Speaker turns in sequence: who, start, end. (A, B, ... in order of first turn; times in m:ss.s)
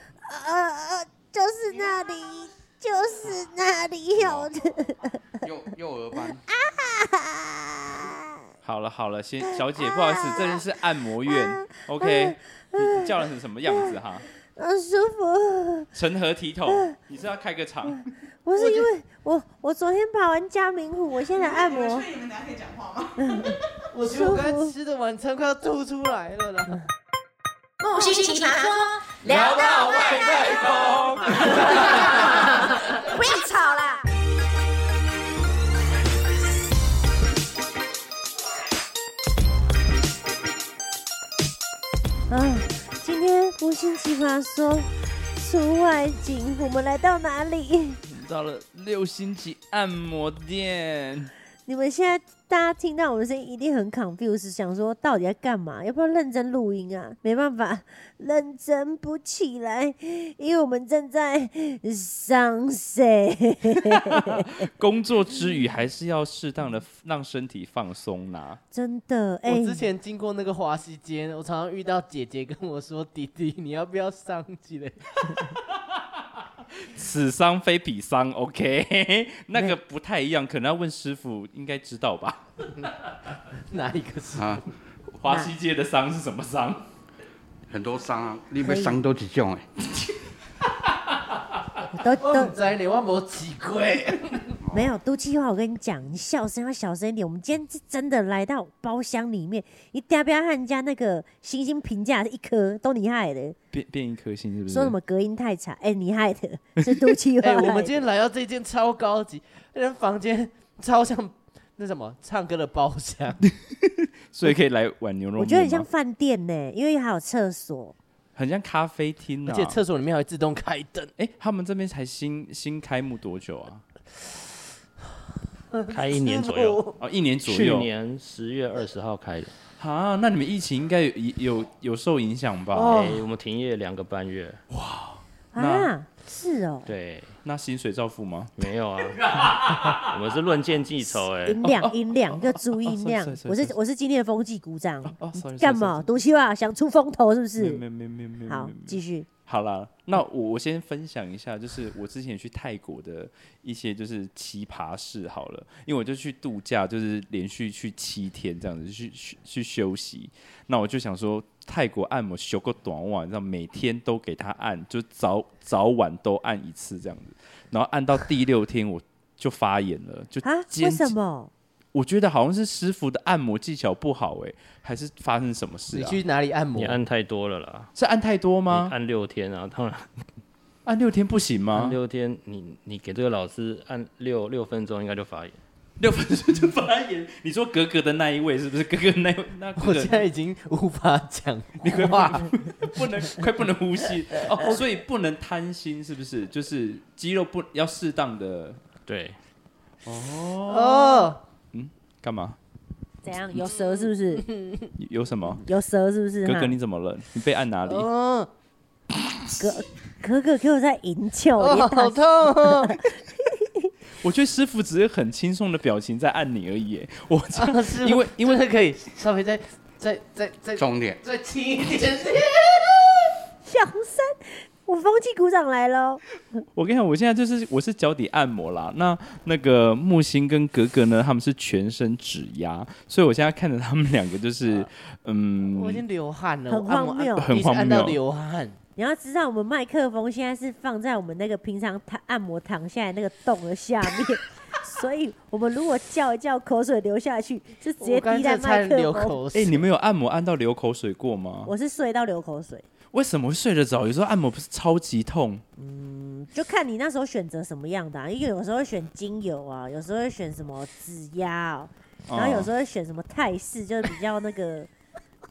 0:00.2-0:05.2 A
0:04.2-0:04.4 B
0:05.4-0:06.4 B
0:06.5-0:08.3 A
0:08.6-0:14.2 C
0:09.5-0:10.6 A
0:11.3-0:13.1 A
0:13.7-0:13.9 A
0:14.5-0:15.9 A
0:15.9-0:18.1 C
0:16.7-0:16.9 A
0:18.4-0:22.1 A
0:18.6-0:18.8 D
0:21.3-0:23.5 E
0:23.2-0:23.6 A
0:23.9-0:26.8 D
0:24.1-0:24.7 A
0:27.8-0:34.0 F
0:29.3-0:32.2 C
0:42.3-0:48.0 A
0:48.1-0:51.3 C
0:51.6-1:04.7 A
1:03.7-1:08.6 C
1:08.7-1:09.8 A
1:09.4-1:15.3 D
1:16.7-1:22.7 C
1:23.7-1:24.6 D
1:24.4-1:24.6 B
1:25.1-1:26.8 C
1:25.3-1:25.5 A
1:27.7-1:29.7 B
1:28.6-1:29.0 A
1:31.9-1:32.5 A
1:32.2-1:34.6 D
1:34.6-1:34.9 B
1:34.7-1:43.6 A
1:43.7-1:45.0 C
1:44.7-1:47.9 A
1:46.8-1:47.1 C
1:47.4-1:53.4 D
1:53.4-1:55.9 C
1:55.4-1:57.9 A
1:58.4-1:59.8 C
1:59.4-2:01.1 D
2:01.2-2:03.8 C
2:05.7-2:07.0 D
2:05.9-2:06.8 G
2:07.0-2:07.9 C
2:07.4-2:09.6 G
2:09.8-2:13.0 C
2:12.7-2:13.2 D
2:12.9-2:14.6 G
2:14.7-2:15.9 C
2:15.5-2:16.9 A
2:16.9-2:17.4 G
2:17.4-2:18.6 C
2:18.6-2:21.6 G
2:19.2-2:20.1 C
2:21.3-2:27.8 A
2:21.6-2:23.7 C
2:25.1-2:26.1 C
2:27.6-2:51.1 C
2:28.5-2:29.3 A
2:50.4-2:51.5 A
2:51.9-2:56.2 C
2:55.9-2:57.0 D
2:56.8-2:57.9 G
2:58.0-2:58.9 C
2:58.7-3:00.3 G
3:00.8-3:02.0 C
3:01.7-3:05.6 G
3:06.0-3:10.2 C
3:09.8-3:12.5 D
3:11.8-3:18.8 C
3:19.1-3:19.4 G
3:20.0-3:22.6 C
3:20.6-3:21.4 D
3:23.2-3:24.5 A
3:23.5-3:24.9 D
3:25.0-3:25.6 C
3:25.6-3:26.8 A
3:26.4-3:28.1 C
3:27.8-3:28.5 D
3:29.6-3:33.9 A
3:31.6-3:33.0 D
3:34.2-3:38.6 C
3:37.5-3:43.3 D
3:40.8-3:41.2 B
3:43.6-3:46.2 A
3:46.7-3:56.0 C
3:55.6-3:58.8 D
3:56.7-3:57.6 A
3:57.4-3:58.2 C
3:59.0-4:09.4 A
4:08.0-4:09.8 D
4:09.5-4:11.7 C
4:11.6-4:12.8 A
4:13.1-4:15.6 C
4:15.8-4:24.9 A
4:22.3-4:22.7 C